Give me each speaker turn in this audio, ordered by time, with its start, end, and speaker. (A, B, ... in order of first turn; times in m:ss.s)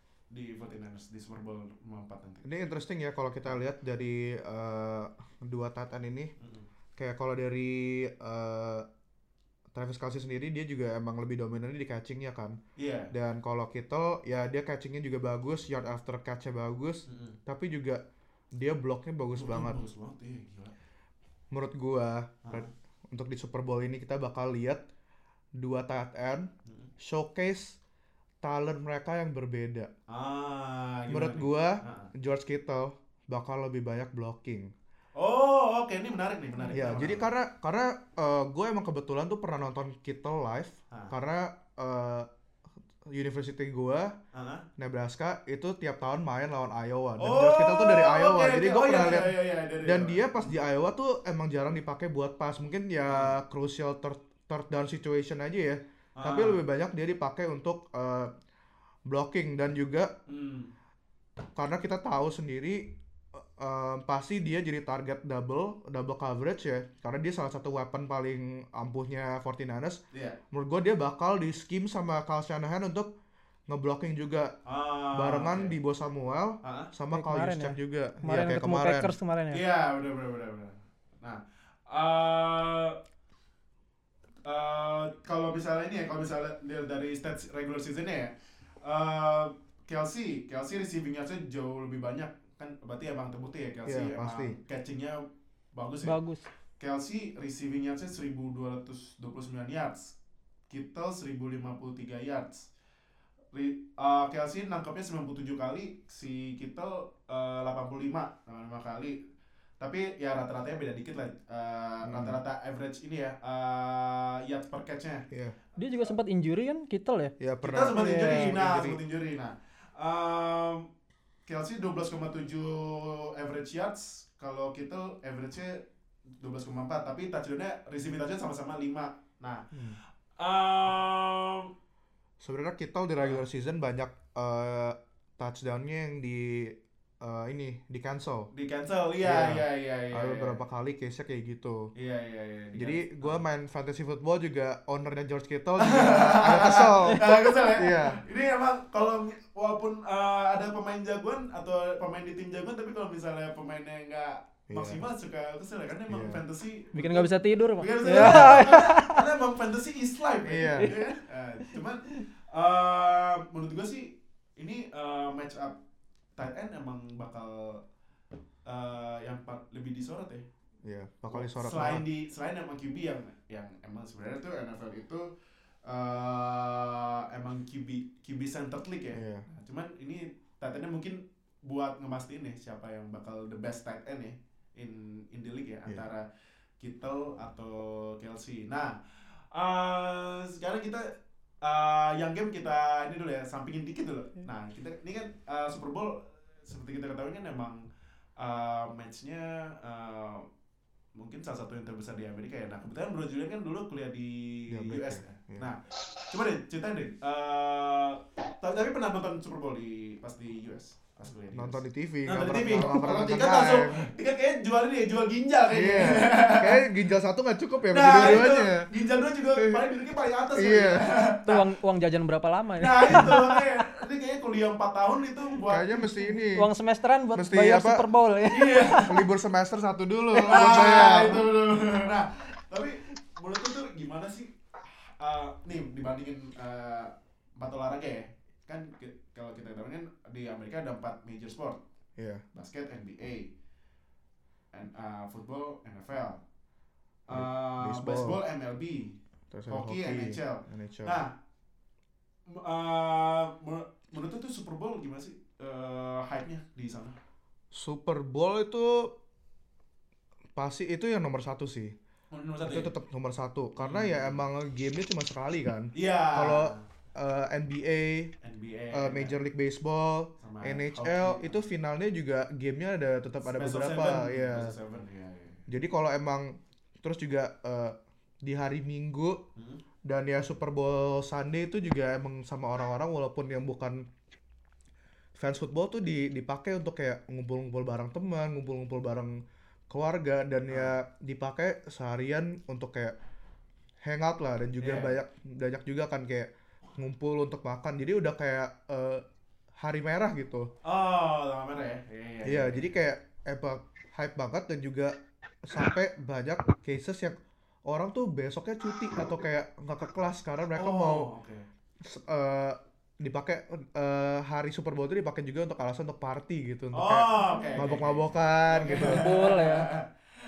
0:00.3-0:02.4 A
0:02.4-0:06.3 B
0:06.4-0:06.6 A
0:07.0-0:08.8 B
0:09.7-0:12.6 B
0:12.8-0:13.1 A
0:13.1-0:18.0 B
0:17.1-0:17.4 A
0:18.6-0:19.8 B
0:19.4-0:20.7 A
0:21.5-0:24.8 B
0:25.6-0:26.5 B
0:27.0-0:27.8 B
0:28.4-0:29.9 B
0:30.1-0:32.1 A
0:31.1-0:34.7 B
0:35.2-0:37.3 A
0:36.7-0:42.3 B
0:43.1-0:44.1 B
0:44.3-0:44.6 A
0:44.8-0:58.3 B
0:47.2-0:50.5 A
0:53.0-0:53.3 A
0:56.2-0:56.6 A
0:59.1-1:00.1 B
1:00.3-1:00.7 A
1:01.6-1:13.1 B
1:10.1-1:10.4 A
1:13.7-1:14.6 B
1:14.6-1:15.7 A
1:15.1-1:19.1 B
1:16.6-1:16.9 A
1:17.1-1:19.6 C
1:19.5-1:23.0 A
1:24.4-1:35.2 A
1:33.8-1:34.6 B
1:35.7-1:36.1 A
1:36.0-1:36.4 C
1:36.8-1:40.1 A
1:40.7-1:42.7 A
1:43.5-1:49.2 A
1:49.8-1:55.2 A
1:52.0-1:52.4 B
1:55.3-1:55.6 B
1:55.8-1:57.3 C
1:57.4-1:59.0 B
1:57.6-2:00.9 A
1:58.0-1:58.5 C
2:01.5-2:05.8 A
2:06.4-2:09.6 A
2:09.7-2:10.0 B
2:10.4-2:11.7 A
2:12.4-2:18.5 B
2:18.5-2:20.6 A
2:19.2-2:21.9 B
2:21.9-2:23.4 A
2:22.7-2:28.2 B
2:25.8-2:37.3 A
2:34.7-2:35.0 B
2:36.1-2:36.4 B
2:36.9-2:39.2 C
2:37.8-2:45.8 A
2:38.2-2:38.5 B
2:40.4-2:40.9 B
2:46.4-2:47.8 A
2:48.6-2:50.4 A
2:50.8-2:52.0 B
2:51.3-2:55.2 A
2:55.8-3:06.2 A
2:59.1-2:59.4 B
3:06.8-3:09.0 A
3:09.5-3:11.1 A
3:11.6-3:17.8 A
3:18.4-3:20.4 A
3:21.1-3:36.8 A
3:24.7-3:25.7 B
3:31.5-3:34.1 B
3:35.7-3:38.9 B
3:37.9-3:41.6 A
3:39.6-3:39.9 B
3:40.5-3:41.1 B
3:41.4-3:43.6 C
3:42.8-3:46.0 A
3:45.7-3:46.7 B
3:46.5-3:49.1 C
3:47.3-3:48.0 B
3:48.5-3:49.1 A
3:49.0-3:51.5 B
3:50.5-4:01.8 A
4:02.2-4:02.4 B
4:02.5-4:03.5 A
4:04.7-4:06.4 A
4:07.3-4:09.2 A
4:07.3-4:08.4 B
4:09.5-4:11.2 B
4:09.7-4:11.3 A
4:12.5-4:17.2 A
4:17.7-4:19.1 B
4:20.5-4:21.9 B
4:22.3-4:22.9 A
4:22.6-4:28.3 B
4:23.8-4:24.4 A
4:25.9-4:26.8 A
4:28.4-4:29.3 A
4:28.9-4:34.7 B
4:30.4-4:31.6 A
4:33.4-4:35.6 A
4:35.7-4:39.4 B
4:39.6-4:39.8 A
4:40.0-4:44.0 B
4:45.4-4:49.4 B
4:49.9-4:53.2 B
4:50.7-4:50.9 A
4:54.0-4:59.2 B
4:54.8-4:55.1 A
4:59.8-5:00.7 B
5:00.8-5:02.9 A
5:02.4-5:11.3 B
5:10.8-5:11.6 A
5:12.0-5:19.3 B
5:16.9-5:20.1 A
5:19.0-5:19.9 C